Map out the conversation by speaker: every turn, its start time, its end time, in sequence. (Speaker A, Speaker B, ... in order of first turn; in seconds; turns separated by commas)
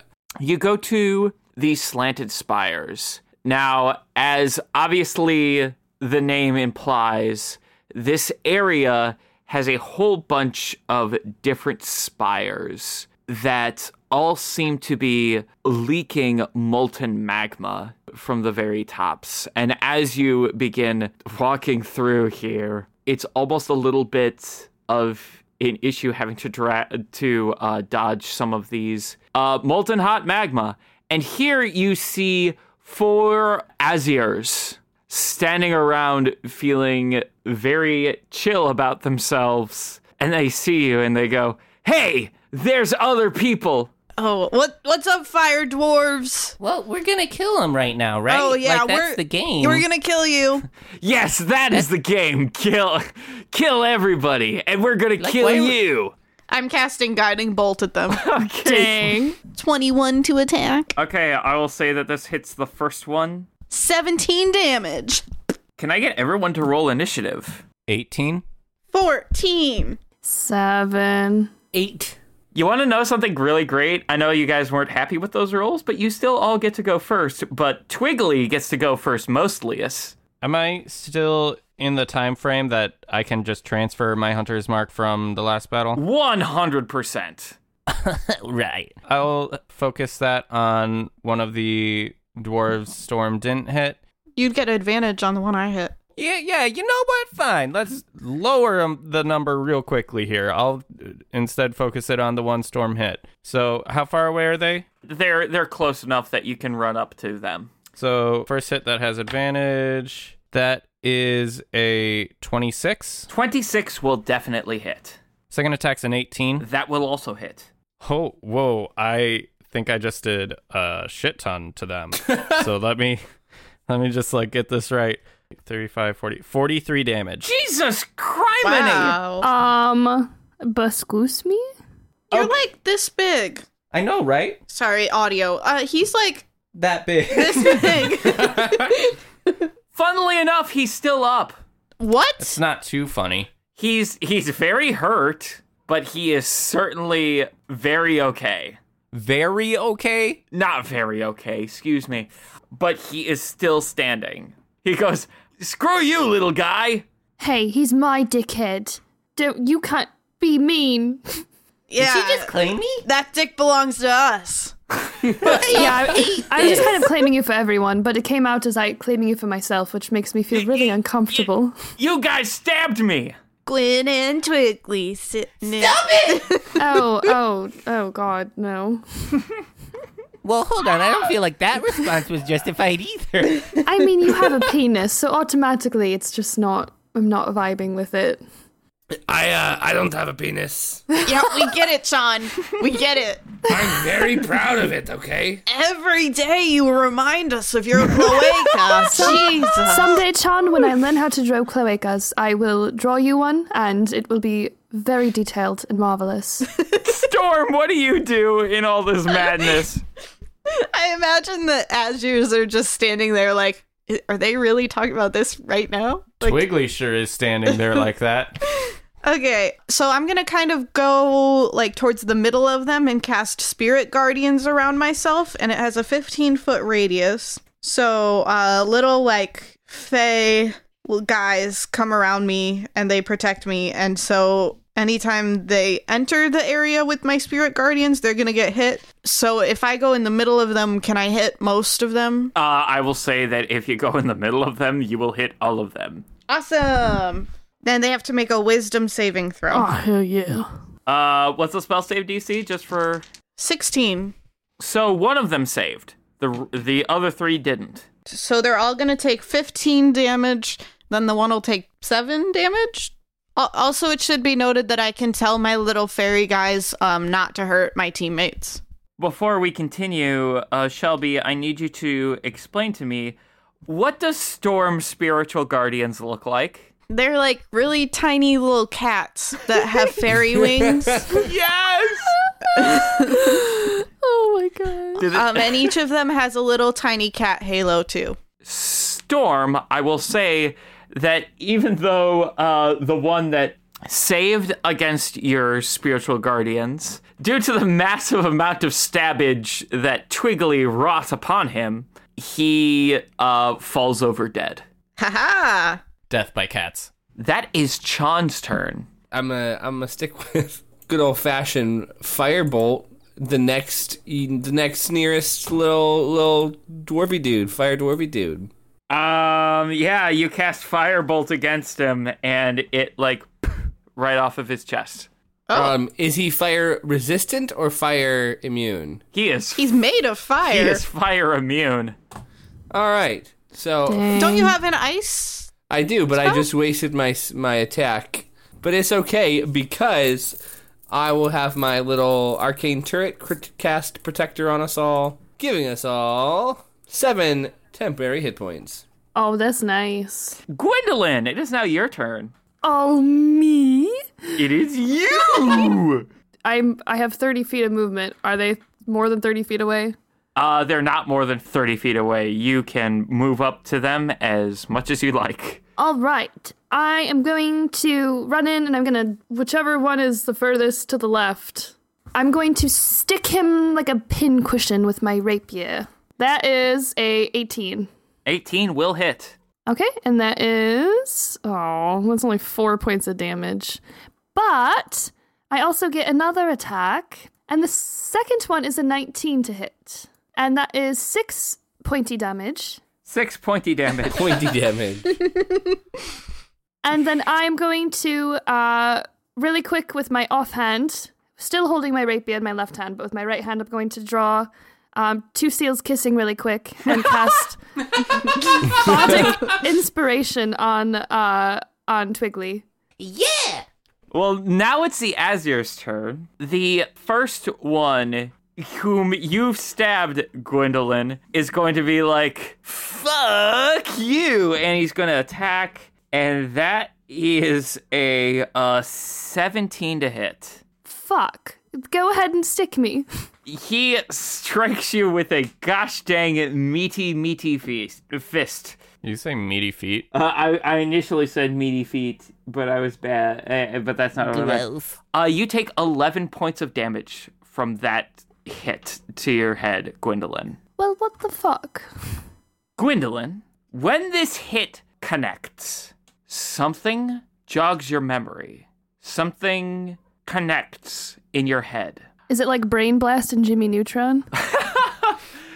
Speaker A: 0.4-43.9, Speaker B: 44.2-46.5, Speaker C: 46.6-49.9, Speaker B: 48.3-50.7, Speaker A: 51.0-56.1, Speaker C: 55.2-55.8, Speaker B: 56.5-58.2, Speaker A: 58.1-59.2, Speaker D: 58.6-59.4, Speaker B: 59.5-60.9, Speaker A: 61.0-63.5, Speaker B: 63.7-65.2, Speaker A: 65.8-67.6, Speaker E: 67.9-68.4, Speaker B: 68.9-70.0, Speaker D: 70.2-71.5, Speaker C: 71.7-72.2, Speaker A: 72.5-80.2, Speaker E: 80.4-86.0, Speaker A: 86.0-87.6, Speaker C: 87.9-89.0, Speaker E: 89.1-94.0, Speaker B: 94.4-96.0, Speaker E: 96.2-104.9, Speaker A: 105.0-107.7, Speaker E: 108.0-113.3, Speaker A: 113.3-115.2, Speaker E: 115.5-116.7, Speaker A: 116.6-117.7, Speaker E: 118.0-123.2, Speaker E: 123.9-127.5, Speaker A: 127.4-129.2, Speaker B: 128.6-129.5, Speaker D: 129.4-131.7, Speaker B: 132.3-133.6, Speaker E: 133.9-134.6, Speaker B: 134.7-136.5, Speaker E: 136.8-138.6, Speaker B: 137.3-138.8, Speaker F: 138.4-138.9, Speaker A: 139.9-141.5, Speaker B: 142.0-142.6, Speaker E: 142.4-143.5, Speaker A: 143.8-148.8, Speaker E: 149.1-150.4, Speaker A: 150.5-157.1, Speaker D: 157.4-161.4, Speaker B: 161.9-162.5, Speaker C: 162.0-163.1, Speaker B: 163.1-164.7, Speaker C: 165.4-167.1, Speaker B: 165.4-165.9, Speaker D: 165.7-171.8, Speaker A: 170.6-173.4, Speaker B: 173.7-176.8, Speaker C: 175.7-176.5, Speaker D: 176.8-179.4, Speaker C: 180.4-183.8, Speaker D: 183.8-188.4, Speaker F: 189.3-191.0, Speaker B: 191.2-193.7, Speaker F: 193.7-195.6, Speaker B: 195.7-200.2, Speaker D: 199.1-206.7, Speaker A: 207.0-210.0, Speaker B: 210.7-216.7, Speaker E: 216.4-218.7, Speaker B: 219.2-242.5, Speaker A: 242.6-246.3, Speaker B: 246.5-249.9, Speaker D: 249.7-250.7, Speaker A: 251.1-253.2, Speaker B: 253.6-254.3, Speaker A: 254.8-258.1, Speaker B: 258.3-268.8, Speaker A: 269.2-276.9, Speaker B: 277.1-281.4, Speaker F: 280.8-281.4, Speaker A: 281.3-282.3, Speaker D: 282.7-285.3, Speaker B: 282.8-283.6, Speaker A: 285.2-285.9, Speaker B: 285.3-288.4, Speaker A: 288.6-304.8, Speaker B: 305.2-306.0, Speaker E: 306.3-307.1, Speaker A: 307.4-309.1, Speaker F: 309.3-318.7, Speaker A: 319.1-323.5, Speaker A: 324.1-325.3, Speaker B: 325.7-326.0, Speaker F: 325.7-329.2, Speaker A: 329.3-329.9, Speaker B: 329.8-331.0, Speaker A: 330.7-332.2, Speaker F: 332.9-334.4, Speaker D: 334.1-334.8, Speaker B: 334.3-335.7, Speaker F: 335.9-340.6, Speaker F: 341.1-349.1, Speaker D: 349.4-350.6, Speaker A: 350.7-352.5, Speaker D: 352.8-354.6, Speaker A: 354.6-356.3, Speaker D: 356.6-360.2, Speaker A: 360.6-365.8, Speaker D: 366.0-378.1, Speaker A: 378.5-379.6, Speaker D: 379.9-384.0, Speaker D: 384.6-393.0, Speaker A: 393.2-394.8, Speaker F: 394.2-395.4, Speaker D: 397.0-412.9, Speaker C: 413.2-413.9, Speaker A: 414.3-430.8, Speaker D: 431.1-433.3, Speaker A: 433.7-439.0, Speaker E: 439.2-440.3, Speaker A: 440.3-450.8, Speaker C: 444.5-445.1, Speaker D: 451.0-452.1, Speaker A: 453.0-462.2, Speaker D: 462.5-464.5, Speaker A: 464.6-465.4